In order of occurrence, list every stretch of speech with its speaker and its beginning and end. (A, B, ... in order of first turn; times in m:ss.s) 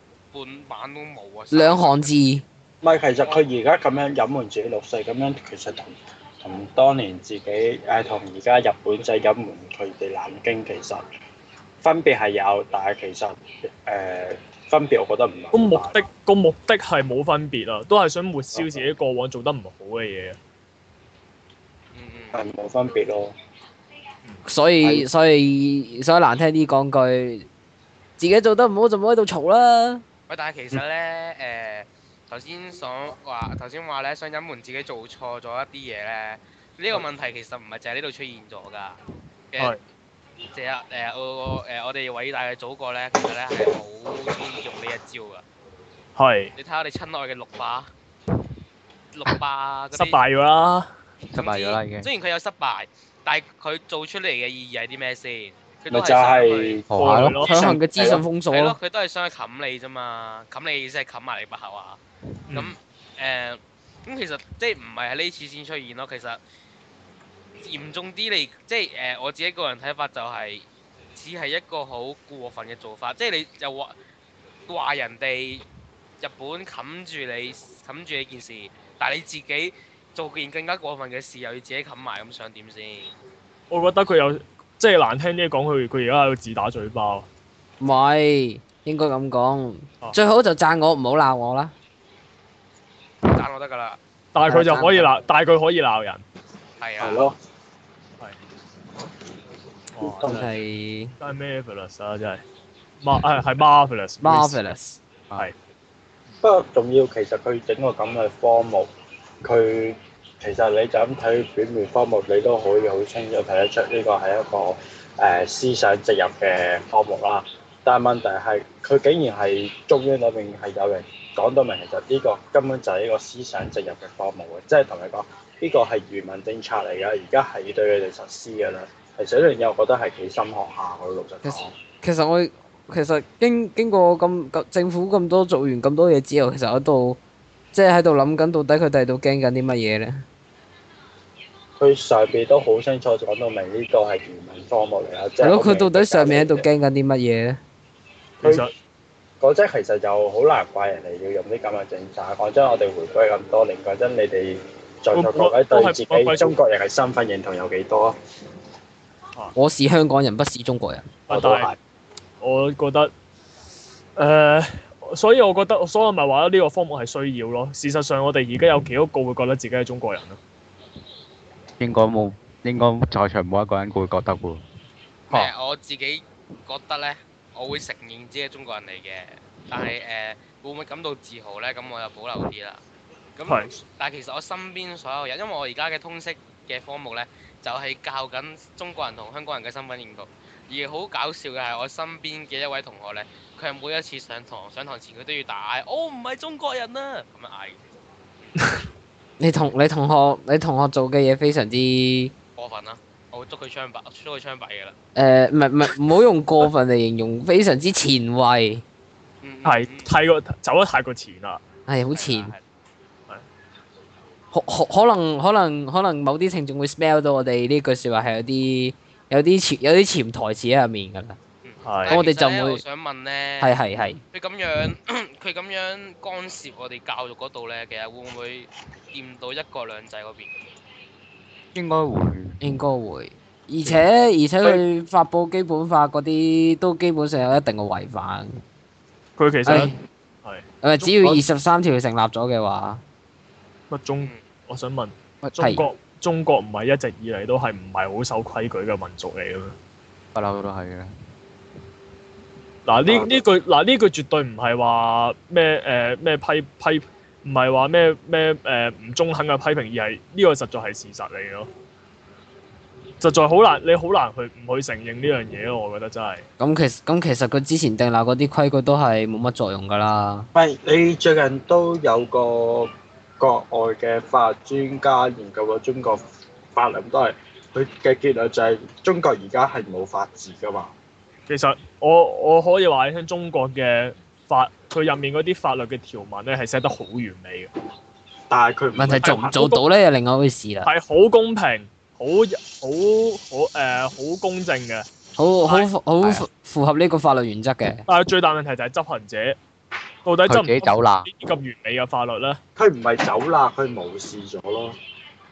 0:00.3-0:02.1 A
0:01.5-0:02.4 B
0:02.8-0:11.0 C
0:03.2-0:03.5 A
0:11.8-0:16.0 C
0:15.5-0:20.4 D
0:18.5-0:18.9 C
0:21.9-0:22.4 A
0:22.3-0:23.3 C
0:24.4-0:27.5 B
0:28.2-0:30.0 B
0:30.3-0:39.0 A
0:40.5-0:45.4 A
0:46.2-0:46.5 D
0:46.6-0:47.9 A
0:49.1-0:50.2 A
0:49.9-0:50.9 D
0:51.3-0:52.1 E
0:51.4-0:56.8 A
0:55.9-0:58.2 C
0:56.9-0:57.4 E
0:56.9-0:57.7 D
0:57.0-0:58.8 B
0:58.5-1:02.0 A
1:02.5-1:02.8 D
1:02.5-1:06.4 A
1:07.6-1:13.9 A
1:14.7-1:15.6 A
1:16.2-1:23.1 A
1:23.7-1:27.3 D
1:27.8-1:31.7 B
1:33.3-1:34.0 A
1:34.3-1:36.2 D
1:34.5-1:35.1 B
1:36.8-1:37.3 A
1:37.0-1:37.4 C
1:40.0-1:40.5 D
1:40.0-1:40.4 C
1:40.2-1:41.1 B
1:41.2-1:42.4 D
1:43.0-1:44.6 D
1:44.2-1:45.0 B
1:46.4-1:48.9 C
1:49.4-2:11.7 C
2:11.4-2:17.2 B
2:17.7-2:20.2 B
2:21.8-2:26.7 C
2:25.4-2:27.6 B
2:28.4-2:28.7 D
2:29.4-2:38.2 C
2:35.1-2:36.6 D
2:39.6-2:41.1 B
2:41.3-2:41.7 D
2:41.3-2:41.8 C
2:42.4-2:43.1 D
2:44.2-2:50.4 D
2:51.8-2:54.6 E
2:55.3-3:02.8 A
3:03.4-3:17.8 A
3:03.5-3:03.8 D
3:19.4-3:22.3 B
3:22.6-3:25.0 A
3:25.2-3:28.8 B
3:29.4-3:30.1 A
3:29.6-3:31.6 D
3:31.9-3:32.5 B
3:32.1-3:32.6 A
3:34.5-3:41.4 B
3:41.6-3:43.8 A
3:41.8-3:42.2 D
3:42.1-3:42.8 B
3:43.6-3:44.2 B
3:44.3-3:50.5 A
3:51.8-3:52.6 E
3:52.6-3:58.6 B
3:59.4-3:59.9 D
3:59.7-3:59.9 B
4:00.8-4:03.0 B
4:03.9-4:09.8 D
4:05.4-4:05.8 E
4:05.6-4:05.8 B
4:10.3-4:11.1 E
4:12.9-4:21.7 D
4:13.0-4:13.4 C
4:23.2-4:26.4 D
4:26.6-4:30.5 B
4:30.6-4:36.2 C
4:36.8-4:40.9 C
4:41.5-4:47.7 D
4:48.5-4:49.6 C
4:49.0-4:50.9 B
4:49.2-4:49.8 D
4:50.8-4:55.1 D
4:55.4-4:58.1 B
4:58.1-4:59.6 D
5:00.2-5:02.6 D
5:00.5-5:01.3 E
5:02.8-5:05.0 C